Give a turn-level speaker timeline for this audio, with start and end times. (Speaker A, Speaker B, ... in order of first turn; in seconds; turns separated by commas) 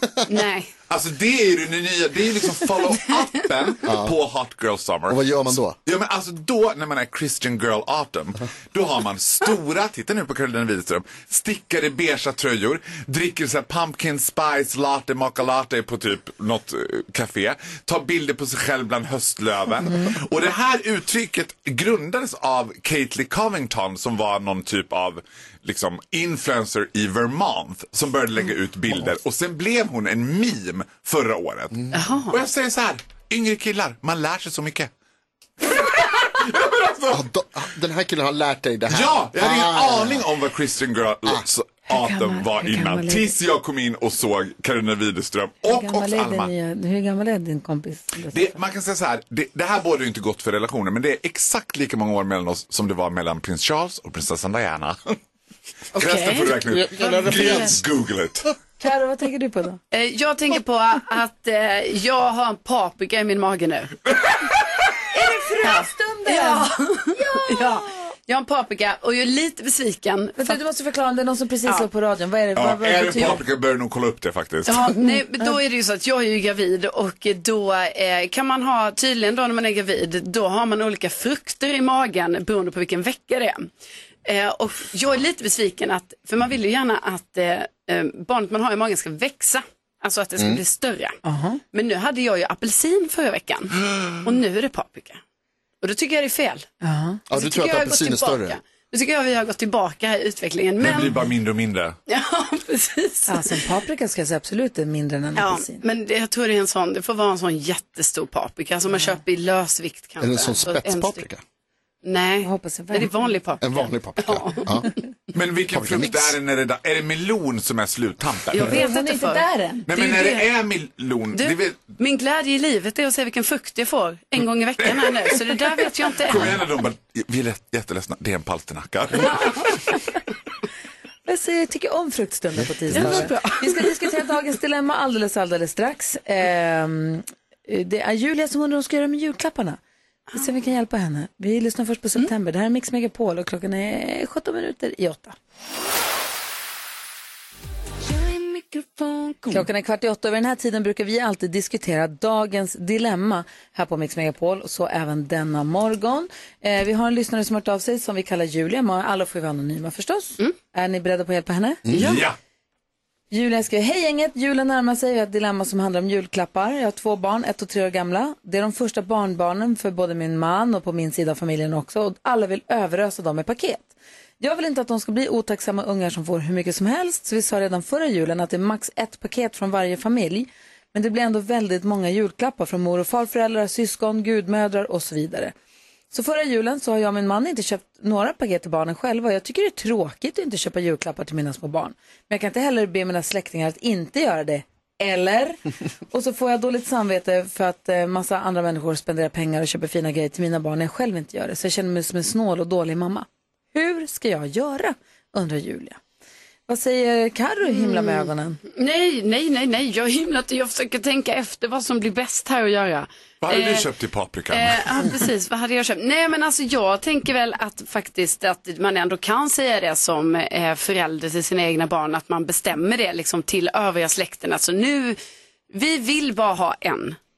Speaker A: 0.3-0.7, Speaker B: 0.9-34.9, Speaker C: 3.9-4.1, Speaker C: 5.1-5.8, Speaker D: 19.8-20.1, Speaker A: 31.9-32.4, Speaker B: 35.6-37.2, Speaker C: 37.1-40.2, Speaker B: 38.9-46.5, Speaker D: 41.9-43.3, Speaker D: 45.7-48.5, Speaker B: 48.3-55.2, Speaker B: 56.0-58.5, Speaker A: 56.0-57.7, Speaker D: 58.8-59.8, Speaker A: 59.9-63.9, Speaker B: 64.1-64.5, Speaker D: 65.1-67.8, Speaker A: 65.6-70.6, Speaker D: 70.4-73.4, Speaker B: 72.5-74.9, Speaker A: 74.7-83.7, Speaker D: 75.0-75.5, Speaker A: 84.2-91.2, Speaker D: 91.2-91.6, Speaker A: 91.7-95.2, Speaker B: 93.8-94.2, Speaker A: 95.8-96.7, Speaker D: 96.8-97.2, Speaker C: 97.3-98.6, Speaker A: 97.3-101.1, Speaker B: 100.8-102.0, Speaker A: 102.1-103.6, Speaker D: 103.3-105.8, Speaker A: 105.4-111.2, Speaker C: 110.2-111.4, Speaker A: 112.0-114.8, Speaker D: 112.4-113.2, Speaker C: 113.6-114.9, Speaker B: 115.3-118.7, Speaker C: 115.7-116.3, Speaker A: 118.5-119.4, Speaker D: 118.6-120.4, Speaker B: 119.9-121.9, Speaker A: 120.0-120.4, Speaker A: 121.3-126.5, Speaker B: 124.8-129.8, Speaker D: 129.2-130.0, Speaker D: 131.2-139.8, Speaker C: 132.6-133.3, Speaker A: 133.0-133.9, Speaker D: 140.3-145.3, Speaker A: 148.2-149.6, Speaker D: 149.5-162.2, Speaker B: 161.9-162.4, Speaker D: 163.3-173.9, Speaker D: 174.4-185.5, Speaker D: 186.1-206.0, Speaker D: 206.7-208.6, Speaker A: 207.7-213.9, Speaker B: 213.4-215.2, Speaker A: 214.5-225.2, Speaker A: 225.7-227.2